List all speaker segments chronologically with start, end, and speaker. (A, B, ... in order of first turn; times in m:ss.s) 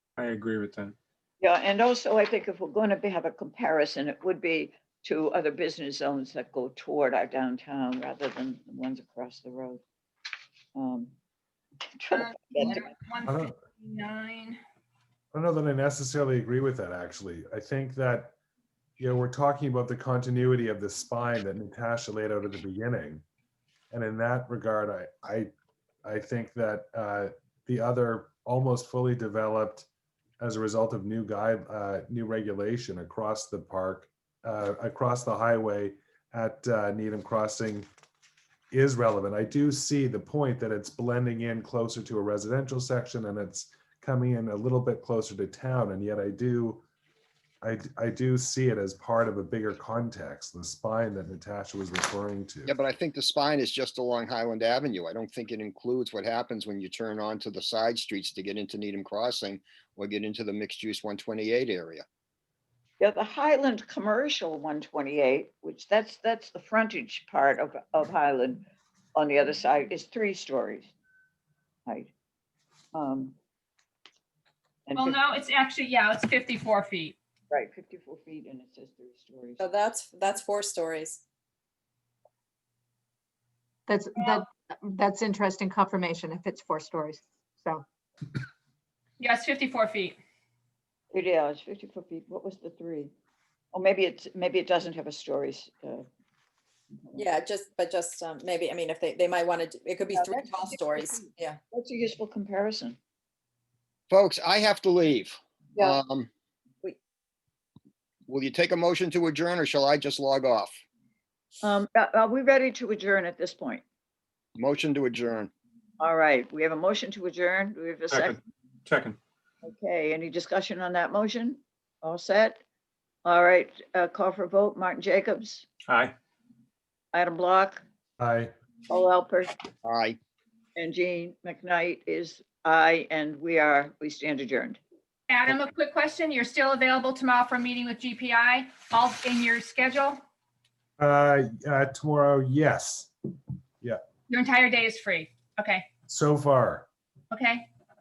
0:00.2-0:01.0 A
0:01.4-0:09.8 B
0:10.8-0:11.1 B
0:12.0-0:12.9 B
0:12.1-0:14.6 C
0:13.2-0:13.6 D
0:15.3-0:18.3 D
0:19.0-0:23.2 D
0:23.9-0:25.5 D
0:26.0-0:29.9 D
0:30.4-0:37.9 D
0:38.7-0:46.8 D
0:47.6-0:52.8 D
0:52.7-1:02.0 E
1:03.0-1:10.9 B
1:11.9-1:12.1 B
1:12.9-1:13.4 B
1:14.9-1:15.2 B
1:15.0-1:17.2 C
1:17.5-1:19.6 B
1:19.6-1:21.2 F
1:23.9-1:27.8 G
1:24.2-1:24.4 C
1:29.2-1:30.2 C
1:31.1-1:33.1 B
1:33.7-1:36.1 B
1:37.2-1:41.6 F
1:40.2-1:43.0 B
1:44.1-1:46.3 E
1:48.3-1:50.8 E
1:51.6-1:53.8 B
1:54.6-1:55.5 E
1:56.0-1:58.4 B
1:58.1-1:59.2 A
1:59.6-2:02.6 B
2:03.2-2:05.6 B
2:05.9-2:06.2 A
2:07.1-2:07.8 B
2:08.2-2:08.5 D
2:08.9-2:09.6 B
2:09.8-2:10.2 E
2:10.8-2:14.8 B
2:15.3-2:20.2 C
2:21.0-2:23.1 D
2:24.3-2:25.9 C
2:26.1-2:26.9 D
2:27.3-2:27.7 C